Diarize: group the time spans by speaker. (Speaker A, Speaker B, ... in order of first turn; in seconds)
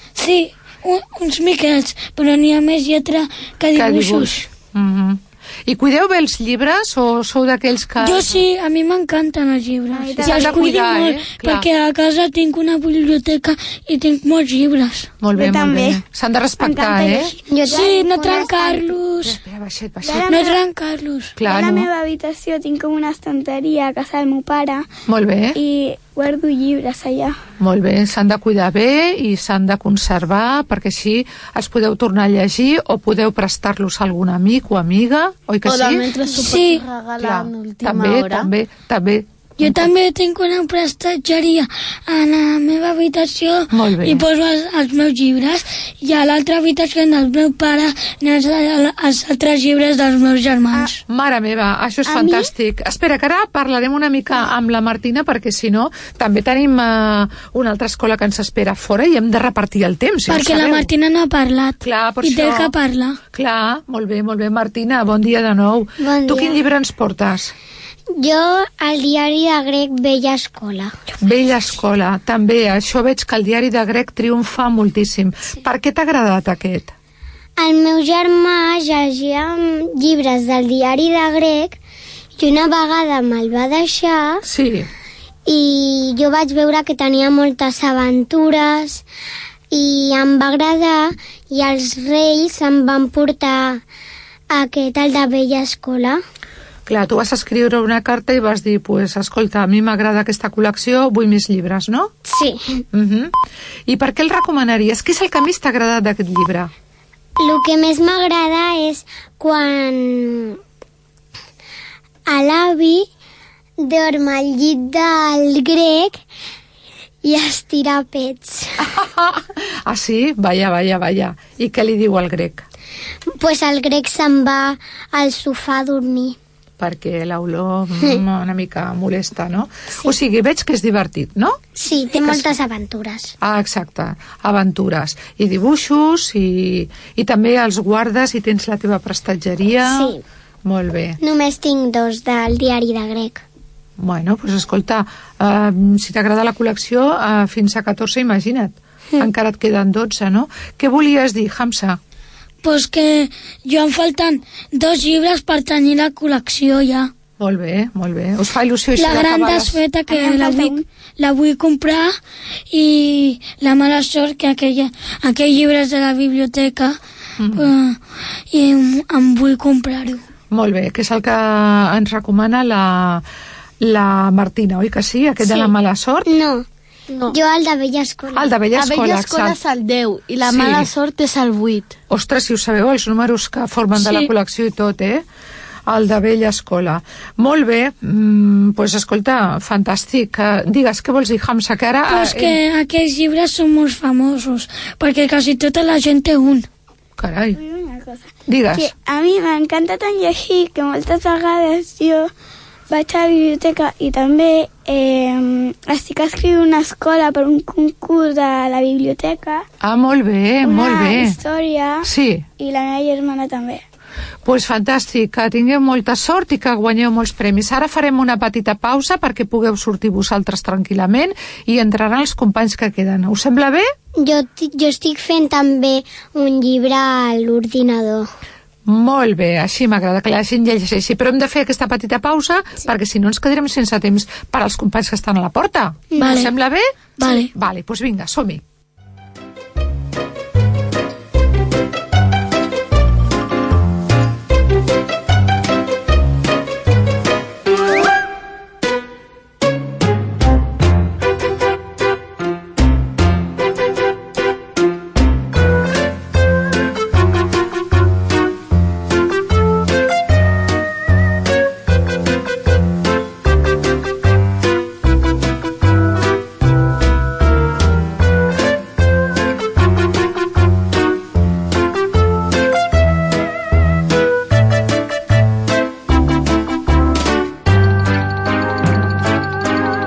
Speaker A: 0.2-4.4, 8.0-15.1, 17.7-19.4, 20.3-21.3, 36.3-36.8, 39.6-51.0, 60.3-63.2, 152.6-157.1, 159.0-162.2, 162.7-167.0, 167.5-168.0, 168.5-170.2, 184.0-184.3, 192.1-196.7, 236.2-236.5, 237.2-237.5
Speaker B: 3.8-8.4, 10.2-11.7, 15.2-17.3, 19.2-20.4, 21.4-21.9, 25.1-25.6, 27.6-36.1, 37.2-39.9, 43.7-44.3, 51.1-60.9, 61.8-62.7, 63.3-67.5, 71.2-76.9, 84.4-84.9, 96.9-102.1, 102.9-103.3, 103.9-106.7, 118.8-122.7, 126.8-131.6, 133.4-141.2, 144.0-152.0, 157.4-159.8, 167.4-167.7, 170.5-173.2, 173.8-176.3, 178.3-179.6, 180.4-180.9, 182.1-185.2, 185.9-192.6, 197.2-197.6, 198.5-198.9, 209.8-211.4, 212.0-212.5, 214.4-223.9, 228.9-238.6
Speaker C: 9.9-10.7, 15.3-16.0, 16.6-18.9, 20.0-20.6, 21.4-24.9, 25.6-27.4, 160.1-160.8, 197.6-202.3, 202.9-209.7, 210.6-212.1, 212.6-213.8
Speaker D: 17.5-18.9, 66.0-66.6, 68.2-70.9, 77.6-81.8, 82.4-84.4, 85.5-89.0, 89.7-93.8, 94.5-96.2, 102.2-102.8, 107.4-110.6, 112.3-113.1, 113.8-116.2, 117.2-118.8, 123.3-126.4, 131.8-133.3, 139.8-140.2, 141.2-143.4, 175.4-175.7, 176.3-178.5, 224.2-228.3, 236.2-236.4
Speaker E: 35.6-38.5, 52.1-52.5, 178.7-181.9